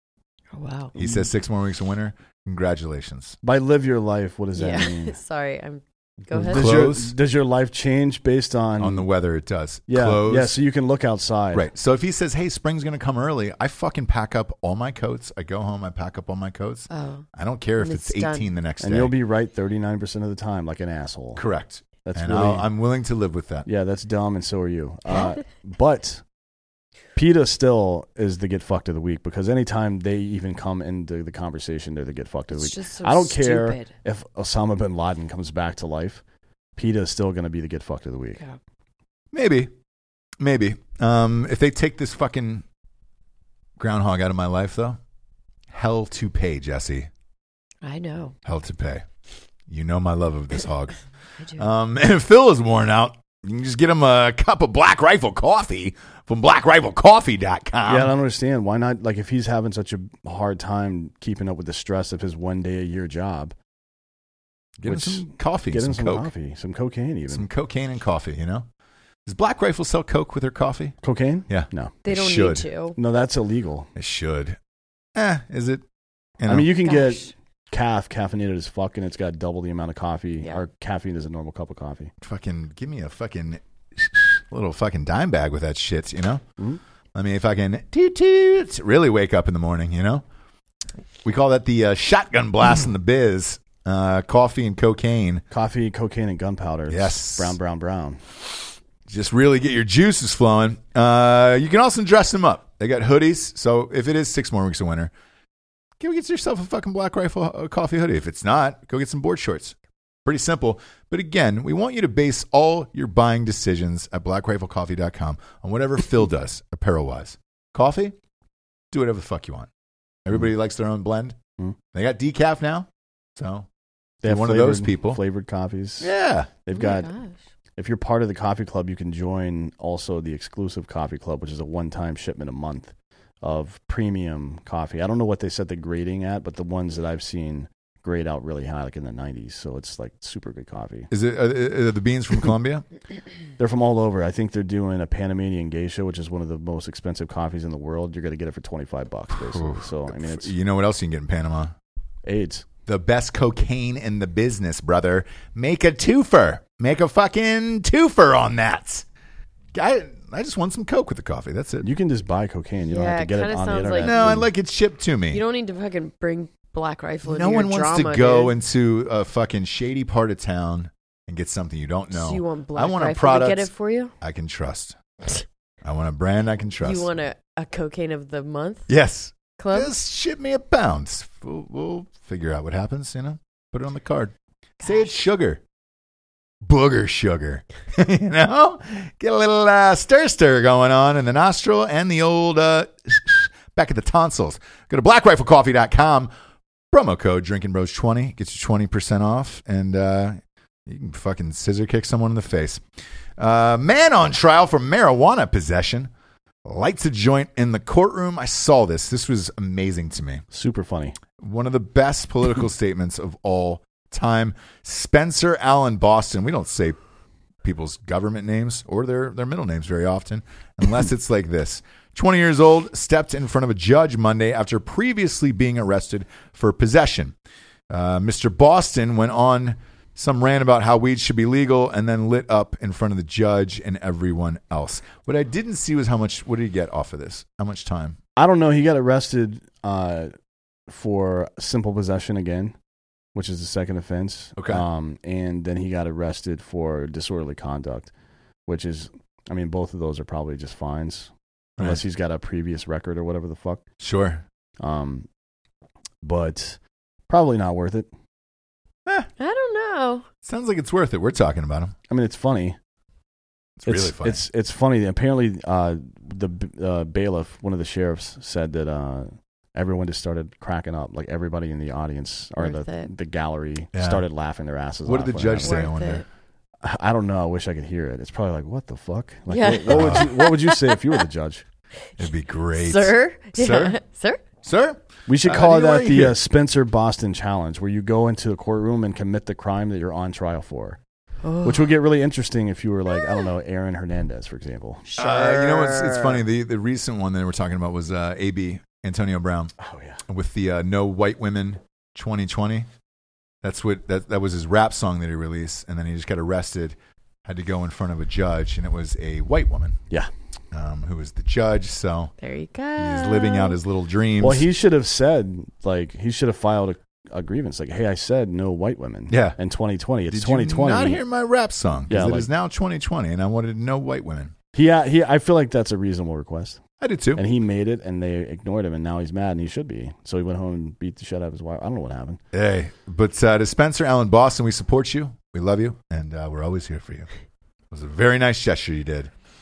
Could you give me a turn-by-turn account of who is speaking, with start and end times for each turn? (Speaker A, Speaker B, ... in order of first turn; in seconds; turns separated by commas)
Speaker A: 0.5-1.0, Speaker B: 0.9-3.4, Speaker C: 3.4-5.2, Speaker A: 4.5-6.7, Speaker C: 6.3-9.1, Speaker B: 6.4-7.1, Speaker B: 8.8-10.6, Speaker C: 9.9-11.7, Speaker B: 11.5-19.1, Speaker A: 16.9-17.2, Speaker A: 17.8-18.5, Speaker C: 18.8-21.4, Speaker B: 21.4-23.6, Speaker C: 22.0-22.7, Speaker C: 23.6-26.2, Speaker C: 27.1-36.2, Speaker A: 32.5-33.9, Speaker C: 36.8-38.4, Speaker B: 39.3-39.7, Speaker B: 40.4-42.6, Speaker B: 43.8-45.0, Speaker B: 45.7-47.1, Speaker A: 47.8-48.3, Speaker B: 48.4-49.0, Speaker B: 49.7-51.0, Speaker B: 51.5-58.1, Speaker C: 57.9-63.5, Speaker B: 64.8-66.3, Speaker C: 64.8-67.5, Speaker B: 67.3-68.7, Speaker B: 69.2-71.0, Speaker C: 71.0-72.0, Speaker B: 71.5-72.7, Speaker A: 72.0-73.0, Speaker C: 73.0-73.9, Speaker B: 74.0-74.6, Speaker B: 75.1-75.8, Speaker B: 76.4-76.7, Speaker C: 76.5-82.1, Speaker A: 76.8-77.3, Speaker B: 82.2-86.4, Speaker B: 87.1-90.2, Speaker B: 91.2-95.4, Speaker C: 95.5-98.2, Speaker B: 96.9-97.5, Speaker B: 99.1-105.1, Speaker B: 106.0-118.1, Speaker B: 118.9-119.7, Speaker B: 120.2-121.4, Speaker B: 121.9-123.7, Speaker B: 124.2-125.2, Speaker C: 124.2-126.1, Speaker B: 126.0-126.5, Speaker C: 126.6-127.1, Speaker A: 126.7-127.4, Speaker C: 127.8-141.1, Speaker B: 141.1-142.8, Speaker C: 143.6-150.5, Speaker B: 149.3-151.7, Speaker C: 152.2-152.7, Speaker B: 152.8-159.0, Speaker B: 159.7-161.9, Speaker C: 161.8-164.5, Speaker A: 162.9-164.3, Speaker B: 164.0-165.4, Speaker A: 165.3-168.5, Speaker B: 167.2-173.7, Speaker A: 172.1-174.1, Speaker B: 174.2-175.0, Speaker B: 175.8-177.1, Speaker A: 176.8-178.9, Speaker B: 178.9-185.6, Speaker A: 179.6-179.9, Speaker B: 186.6-196.3, Speaker B: 196.9-202.8, Speaker B: 203.4-206.1, Speaker B: 206.6-210.4, Speaker C: 210.5-211.2, Speaker B: 211.4-217.0, Speaker B: 217.6-227.3, Speaker B: 227.9-238.2, Speaker C: 238.3-240.3, Speaker C: 240.9-242.7, Speaker C: 243.3-248.1, Speaker B: 244.6-244.8, Speaker C: 248.7-253.8, Speaker B: 254.0-254.4, Speaker C: 254.8-255.3, Speaker C: 256.2-256.8, Speaker C: 257.3-258.1, Speaker A: 259.4-260.2, Speaker B: 260.4-261.9, Speaker C: 262.1-262.8, Speaker B: 263.8-264.4, Speaker C: 263.9-275.9, Speaker A: 272.6-273.1, Speaker B: 273.9-274.2, Speaker B: 275.0-276.2, Speaker A: 275.6-276.2, Speaker C: 276.8-281.6, Speaker A: 279.5-281.0, Speaker B: 279.9-280.3, Speaker B: 282.2-284.0, Speaker A: 282.7-284.4, Speaker B: 284.6-286.4, Speaker C: 285.3-291.0, Speaker A: 291.4-291.9, Speaker C: 291.6-295.1, Speaker A: 295.1-296.4, Speaker B: 295.2-299.7, Speaker C: 299.8-300.2, Speaker B: 300.3-302.9, Speaker B: 303.6-310.0, Speaker B: 310.7-312.3, Speaker A: 312.4-313.8, Speaker B: 313.0-314.7, Speaker C: 314.4-321.2, Speaker B: 319.3-319.6, Speaker B: 320.3-324.5, Speaker C: 322.1-322.5, Speaker C: 324.7-326.8, Speaker B: 327.0-327.4, Speaker C: 327.4-332.4, Speaker B: 332.5-337.3, Speaker B: 337.9-339.3